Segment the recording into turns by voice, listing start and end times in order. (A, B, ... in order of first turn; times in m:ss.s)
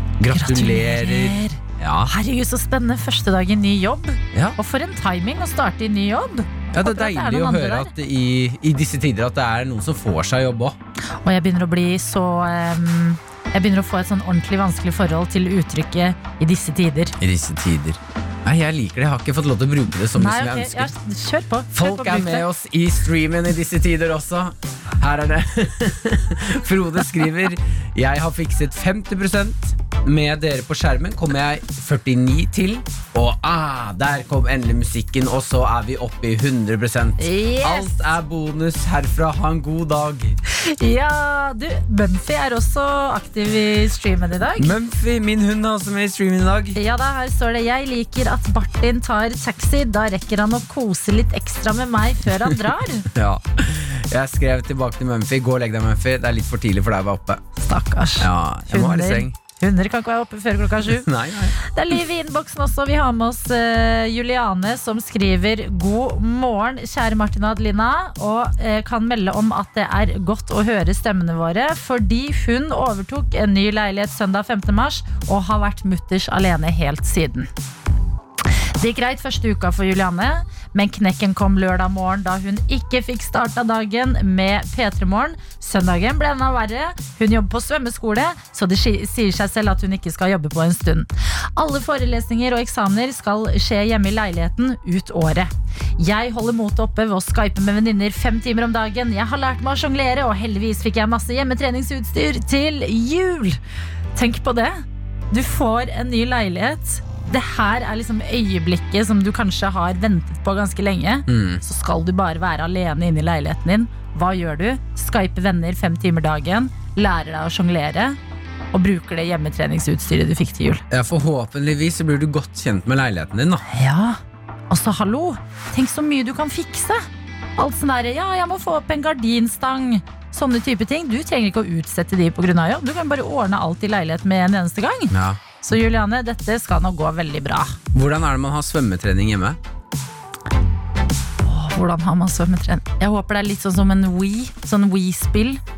0:00.2-0:02.1 A
0:00.3-0:07.9 B
0:06.7-0:10.8 A
0:11.2-0:17.2 B
0:17.2-0:20.9 A
0:20.2-0:22.4 B
0:21.7-0:40.4 A
0:37.2-0:38.0 B
0:40.5-0:44.8 B
0:44.6-0:46.8 A
0:46.8-0:53.1 B
0:53.1-0:57.4 A
0:57.6-1:01.1 B
0:58.2-0:59.4 A
1:00.8-1:01.6 A
1:01.6-1:17.5 B
1:18.5-1:43.6 B
1:44.2-1:58.2 B
1:51.3-1:51.6 A
1:58.7-2:00.8 B
2:00.9-2:03.6 A
2:03.7-2:04.2 B
2:04.7-2:07.0 B
2:07.6-2:17.8 B
2:15.1-2:15.4 A
2:17.9-2:19.6 A
2:21.4-2:25.6 B